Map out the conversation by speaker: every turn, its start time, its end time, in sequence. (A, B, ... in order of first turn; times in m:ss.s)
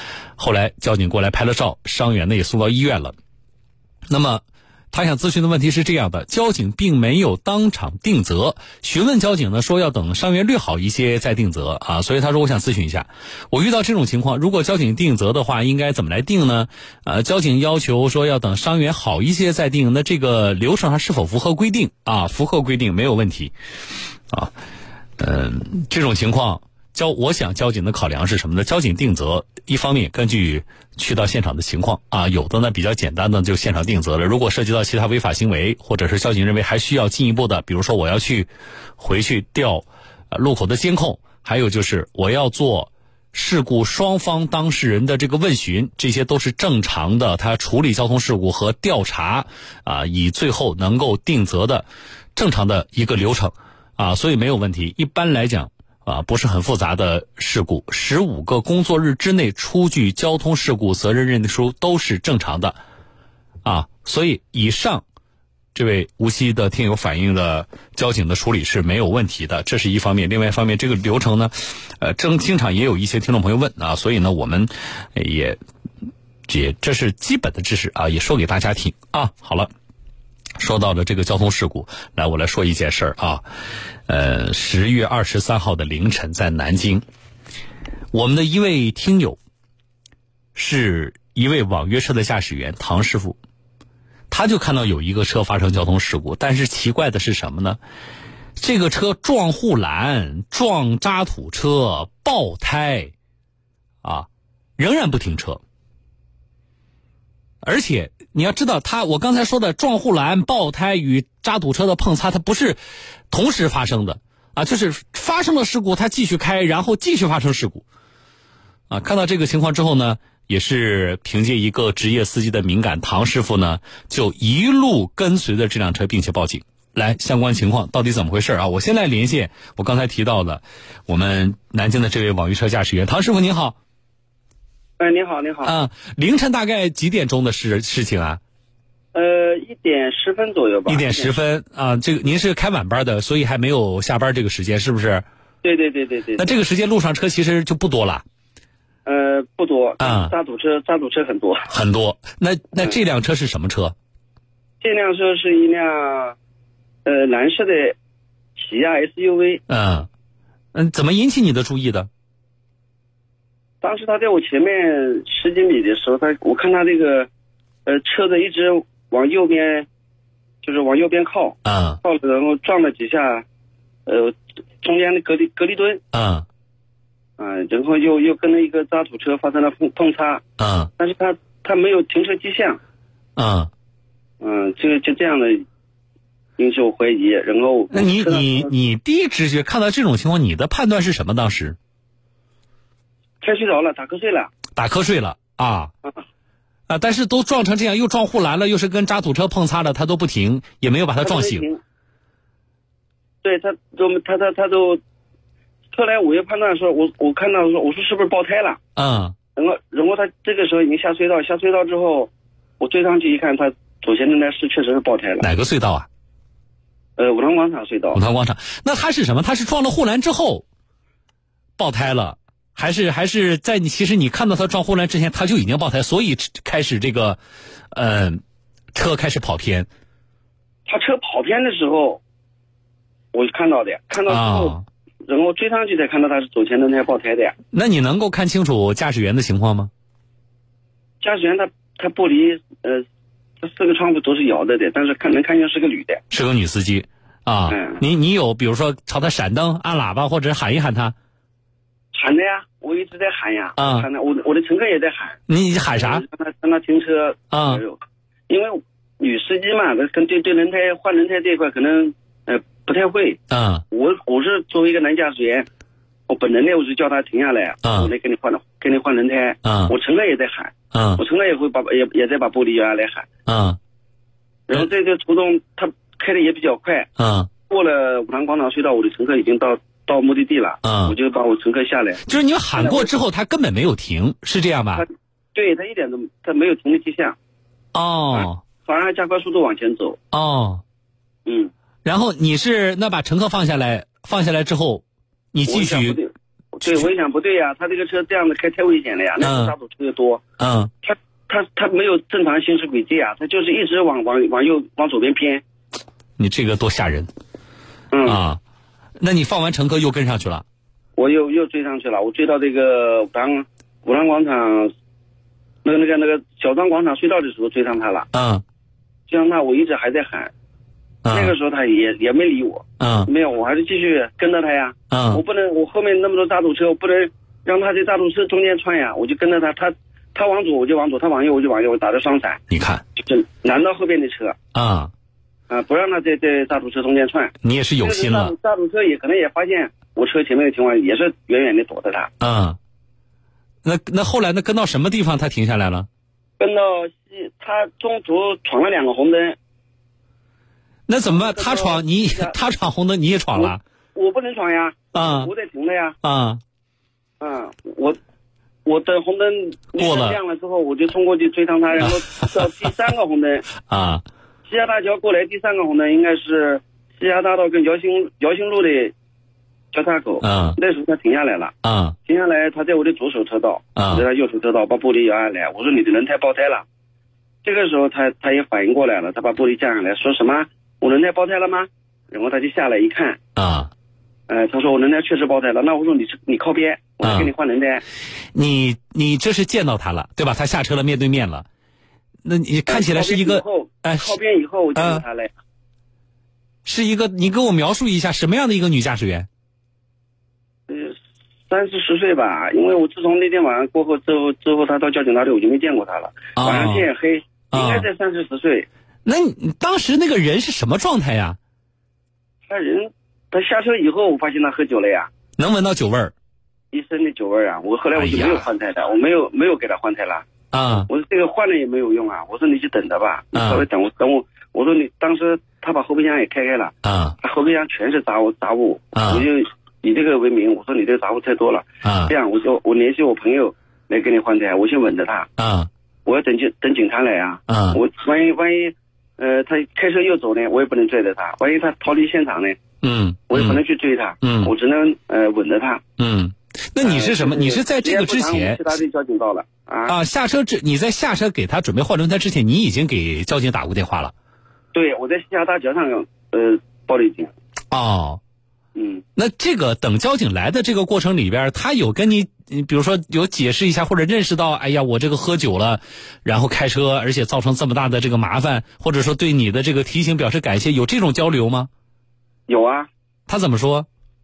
0:00.4-0:03.1 A
0:04.1-0:23.5 A
0:25.2-1:02.8 A
1:03.6-1:05.0 A
1:05.8-1:15.6 A
1:16.5-1:19.7 A
1:20.6-1:23.4 A
1:24.1-1:27.0 A
1:28.1-1:29.4 A
1:30.6-1:33.4 A
1:34.3-1:37.8 A
1:38.6-1:43.1 A
1:44.0-1:45.6 A
1:47.6-1:52.8 A
1:53.3-1:57.8 A
1:58.9-2:13.8 A
2:15.0-2:15.7 B
2:15.6-2:18.4 A
2:19.1-2:21.3 B
2:20.9-2:25.2 A
2:25.6-2:26.5 B
2:26.4-2:28.2 A
2:29.1-2:31.7 B
2:30.0-2:30.3 A
2:31.7-2:34.0 A
2:34.8-2:36.4 B
2:37.1-2:38.0 B
2:38.6-2:39.6 B
2:39.7-2:40.1 A
2:40.7-2:42.1 A
2:43.8-2:47.3 B
2:47.9-2:49.9 B
2:50.6-2:53.4 B
2:51.6-2:52.0 A
2:54.1-2:56.0 B
2:56.1-2:56.5 A
2:57.4-3:00.4 B
3:00.6-3:00.9 A
3:01.0-3:02.8 B
3:03.4-3:03.7 A
3:04.4-3:05.6 B
3:06.6-3:08.7 B
3:07.9-3:11.8 A
3:13.4-3:14.5 B
3:14.8-3:15.9 A
3:16.9-3:21.7 A
3:21.2-3:21.8 B
3:23.4-3:25.0 B
3:25.9-3:28.8 B
3:29.0-3:29.4 A
3:29.6-3:35.5 B
3:35.4-3:36.1 A
3:37.2-3:38.2 B
3:38.1-3:40.6 A
3:41.8-3:47.4 A
3:47.9-3:48.4 A
3:48.9-3:49.9 A
3:50.9-3:52.2 B
3:53.3-3:57.6 B
3:54.3-3:54.8 A
3:57.7-3:59.9 A
4:01.2-4:03.0 B
4:03.6-4:06.2 B
4:06.3-4:11.2 A
4:07.7-4:08.0 B
4:12.1-4:15.4 B
4:13.8-4:14.1 A
4:15.5-4:16.2 A
4:15.9-4:23.4 B
4:17.5-4:17.8 A
4:23.5-4:23.8 A
4:23.9-4:25.7 B
4:26.3-4:33.3 B
4:27.8-4:28.1 A
4:29.6-4:29.9 A
4:30.9-4:31.2 A
4:33.5-4:33.8 A
4:34.7-4:37.1 B
4:37.2-4:37.5 A
4:37.7-4:42.2 B
4:40.8-4:41.2 A
4:42.2-4:45.0 A
4:42.8-4:43.1 B
4:45.0-4:47.4 B
4:47.9-4:48.6 A
4:48.4-4:50.2 B
4:50.3-4:50.8 A
4:51.5-4:51.7 B
4:52.0-4:56.2 A
4:55.7-5:00.4 B
4:59.4-4:59.7 A
5:00.6-5:00.9 A
5:01.0-5:05.6 B
5:06.4-5:07.3 A
5:08.1-5:08.4 B
5:08.2-5:08.6 A
5:09.2-5:10.6 A
5:11.2-5:14.9 B
5:15.8-5:18.3 B
5:18.3-5:18.6 A
5:19.3-5:20.5 B
5:21.2-5:21.5 A
5:21.3-5:32.6 B
5:23.0-5:23.3 A
5:25.1-5:25.4 A
5:32.7-5:33.0 A
5:33.2-5:34.6 B
5:34.7-5:35.1 A
5:35.7-5:42.3 B
5:37.6-5:38.5 A
5:42.4-5:42.8 A
5:43.8-5:46.1 A
5:46.6-5:49.6 B
5:51.1-5:53.8 A
5:51.3-5:52.6 B
5:53.6-5:56.2 B
5:55.1-5:55.5 A
5:56.2-5:56.6 A
5:57.4-5:58.2 B
5:58.9-6:03.7 B
6:00.0-6:00.4 A
6:03.9-6:04.2 A
6:04.7-6:09.1 B
6:09.9-6:11.7 B
6:10.4-6:10.8 A
6:11.8-6:12.2 A
6:12.3-6:16.9 B
6:14.0-6:14.2 A
6:17.6-6:23.4 B
6:23.6-6:23.9 A
6:24.5-6:28.0 B
6:27.2-6:27.5 A
6:28.5-6:31.7 A
6:32.4-6:34.3 A
6:32.9-6:35.5 B
6:35.0-6:35.2 A
6:36.8-6:39.5 A
6:40.9-6:41.2 B
6:41.7-6:48.9 B
6:46.6-6:47.1 A
6:47.7-6:48.1 A
6:49.2-6:51.6 A
6:52.7-6:55.3 B
6:55.6-6:56.3 A
6:56.9-7:15.5 B
6:58.2-6:58.7 A
7:00.7-7:01.1 A
7:03.5-7:03.8 A
7:07.0-7:07.4 A
7:09.2-7:09.4 A
7:12.0-7:12.3 A
7:15.6-7:15.9 A
7:16.2-7:22.8 B
7:17.7-7:18.0 A
7:23.0-7:23.8 A
7:23.5-7:26.0 B
7:24.4-7:24.7 A
7:26.2-7:28.9 A
7:27.0-7:30.2 B
7:30.1-7:34.3 A
7:34.9-7:37.5 B
7:37.9-7:38.4 A
7:39.0-7:39.2 B
7:39.4-7:51.9 A
7:52.7-7:53.1 B
7:53.5-7:54.1 A